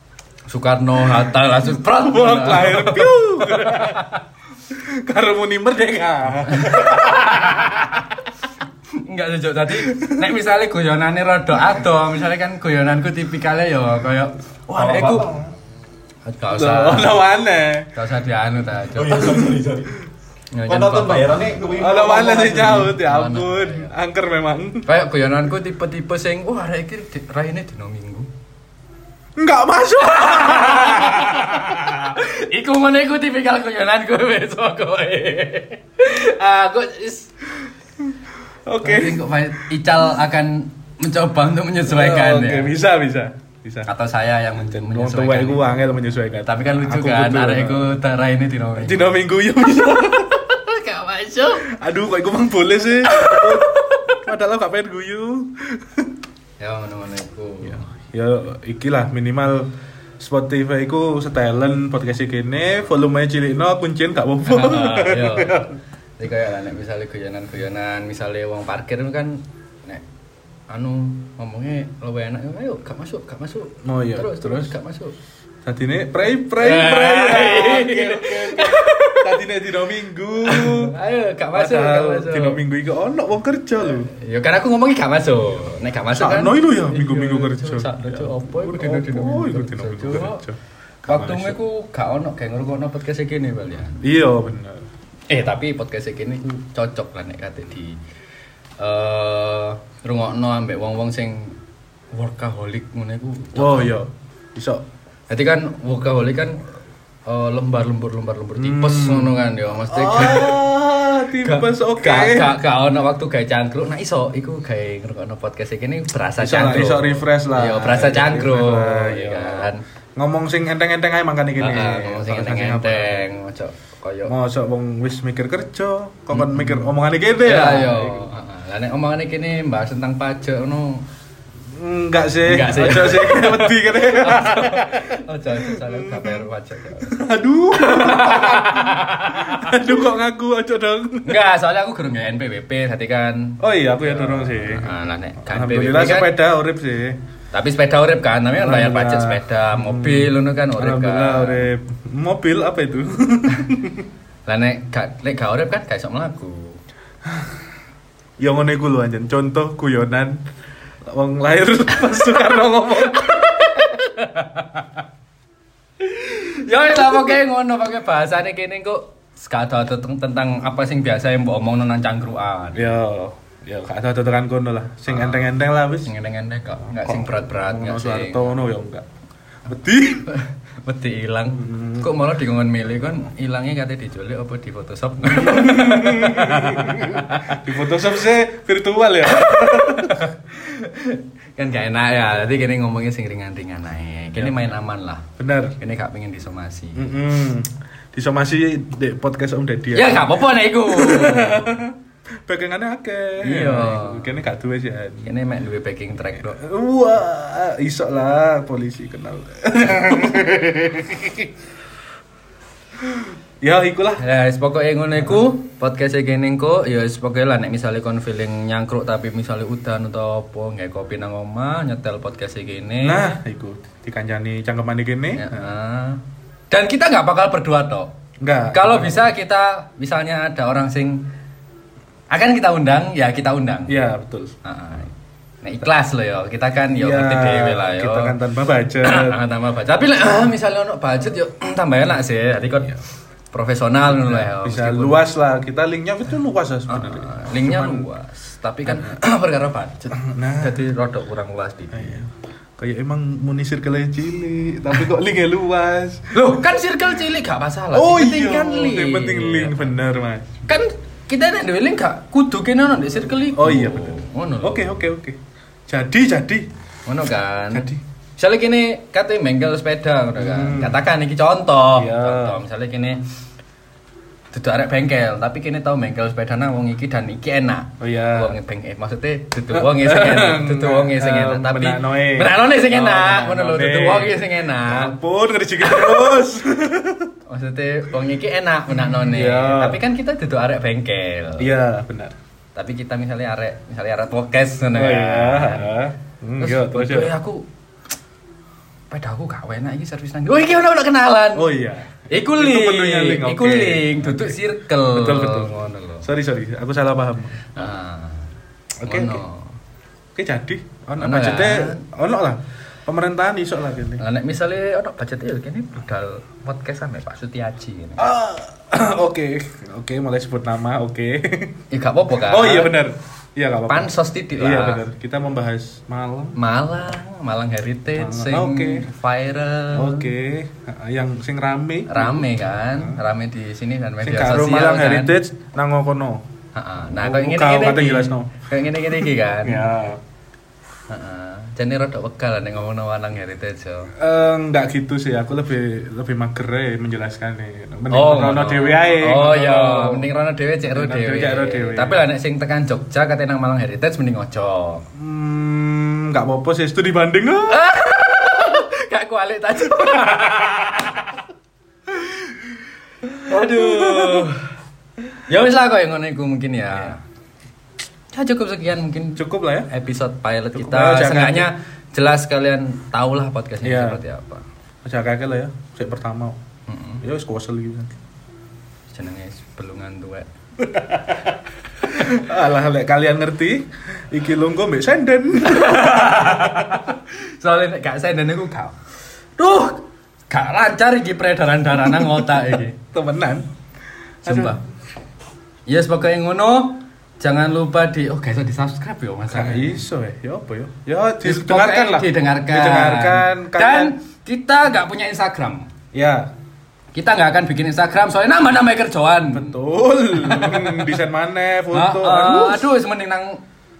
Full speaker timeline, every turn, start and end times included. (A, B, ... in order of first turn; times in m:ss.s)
0:00.5-0:04.2 A
0:01.0-0:04.2 B
0:04.7-0:08.0 B
0:06.5-0:08.1 A
0:08.9-0:15.3 A
0:09.7-0:10.3 B
0:14.7-0:15.5 C
0:16.2-0:17.2 A
0:16.5-0:17.9 B
0:17.9-0:19.6 A
0:18.9-0:20.0 C
0:20.5-0:21.6 A
0:20.6-0:22.9 C
0:21.7-0:24.9 B
0:22.2-0:23.9 A
0:24.8-0:28.3 A
0:29.4-0:32.1 B
0:30.1-0:37.3 A
0:38.6-0:39.3 B
0:38.8-0:42.7 A
0:41.8-0:43.9 B
0:43.8-0:49.2 A
0:44.6-0:47.9 B
0:48.8-0:50.4 B
0:50.2-0:51.7 A
0:51.6-0:56.2 B
0:53.1-0:54.2 A
0:56.6-0:57.8 A
0:57.6-1:05.8 B
1:04.5-1:10.0 A
1:10.7-1:15.1 A
1:13.8-1:14.7 B
1:15.6-1:20.9 B
1:16.6-1:19.4 A
1:20.4-1:22.6 A
1:21.5-1:24.1 B
1:23.8-1:30.4 A
1:26.1-1:31.6 B
1:31.1-1:34.1 A
1:34.0-1:34.9 B
1:35.3-1:38.0 A
1:38.8-1:41.6 A
1:42.1-1:43.9 A
1:43.6-1:44.8 B
1:45.3-1:46.6 A
1:47.2-1:50.7 A
1:48.5-1:52.5 B
1:51.4-1:59.8 A
1:56.4-2:03.2 B
2:01.6-2:04.3 A
2:04.2-2:08.3 B
2:06.3-2:06.9 A
2:07.4-2:11.0 A
2:11.7-2:16.5 B
2:12.4-2:17.1 A
2:17.0-2:21.4 B
2:17.7-2:20.1 A
2:21.2-2:26.4 A
2:23.6-2:27.2 B
2:27.5-2:31.7 A
2:28.5-2:34.1 B
2:34.4-2:36.8 A
2:38.4-2:40.4 B
2:41.1-2:43.5 B
2:42.9-2:44.9 A
2:46.0-2:52.9 A
2:52.7-2:56.1 B
2:55.1-2:55.5 A
2:56.0-2:58.5 A
2:56.8-2:59.0 B
2:59.6-3:00.3 B
3:00.3-3:07.6 A
3:01.6-3:02.1 B
3:05.2-3:10.3 B
3:09.3-3:15.3 A
3:14.4-3:14.7 B
3:15.4-3:15.8 B
3:15.8-3:17.0 A
3:17.0-3:22.0 B
3:19.9-3:21.7 A
3:22.5-3:25.3 B
3:23.4-3:24.3 A
3:25.2-3:26.6 A
3:26.4-3:31.5 B
3:33.0-3:34.2 B
3:34.2-3:43.3 A
3:43.0-3:45.7 B
3:45.3-3:48.1 A
3:48.4-3:49.3 B
3:48.7-3:51.2 A
3:52.3-3:53.9 A
3:53.9-3:54.6 B
3:54.6-3:58.3 A
3:56.9-3:59.4 B
3:59.0-4:03.0 A
4:03.5-4:05.2 A
4:04.1-4:08.1 B
4:06.9-4:12.2 A
4:10.1-4:10.8 B
4:11.9-4:16.6 B
4:16.3-4:19.9 A
4:17.9-4:20.7 B
4:20.7-4:25.0 A
4:23.4-4:26.6 B
4:27.0-4:33.2 A
4:27.7-4:28.0 B
4:30.4-4:31.0 B
4:31.9-4:32.6 B
4:34.5-4:45.1 A
4:38.0-4:38.6 B
4:39.7-4:47.3 B
4:45.8-4:46.4 A
4:47.5-4:51.7 A
4:48.9-4:50.0 B
4:51.6-4:52.3 B
4:52.7-4:55.9 A
4:54.9-4:57.3 B
4:56.6-4:57.6 A
4:59.1-5:01.7 A
5:01.5-5:04.5 B
5:02.3-5:06.2 A
5:05.1-5:07.7 B
5:07.7-5:08.5 A
5:09.0-5:09.4 B
5:09.0-5:09.8 A
5:10.4-5:14.2 B
5:11.2-5:12.0 A
5:14.2-5:18.2 A
5:18.2-5:21.8 B
5:21.9-5:22.9 A
5:22.4-5:26.6 B
5:23.9-5:25.0 A
5:26.6-5:30.3 A
5:28.1-5:29.1 B
5:29.9-5:33.2 B
5:32.1-5:35.3 A
5:34.2-5:36.4 B
5:36.7-5:39.8 A
5:37.1-5:38.5 B
5:39.0-5:40.2 B
5:41.1-5:44.1 A
5:44.2-5:50.3 B
5:48.1-5:55.0 A
5:50.8-5:52.3 B
5:55.2-5:57.9 B
5:57.7-6:01.3 A
6:02.1-6:02.7 A
6:03.4-6:04.6 A
6:03.5-6:04.5 B
6:05.5-6:07.2 A
6:08.3-6:14.6 A
6:09.4-6:09.9 B
6:10.7-6:11.7 B
6:13.8-6:14.2 B
6:15.0-6:16.6 B
6:16.9-6:17.2 A
6:17.2-6:18.2 B
6:19.1-6:20.5 A
6:20.8-6:21.5 B
6:22.1-6:27.1 B
6:25.6-6:28.9 A
6:29.6-6:33.0 A
6:32.4-6:33.7 B
6:34.4-6:34.8 B
6:34.4-6:34.8 A
6:35.9-6:40.0 A
6:39.5-6:44.1 B
6:41.4-6:45.9 A
6:46.1-6:46.5 B
6:47.1-6:49.8 A
6:49.4-6:52.9 B
6:50.4-6:51.2 A
6:51.9-6:53.6 A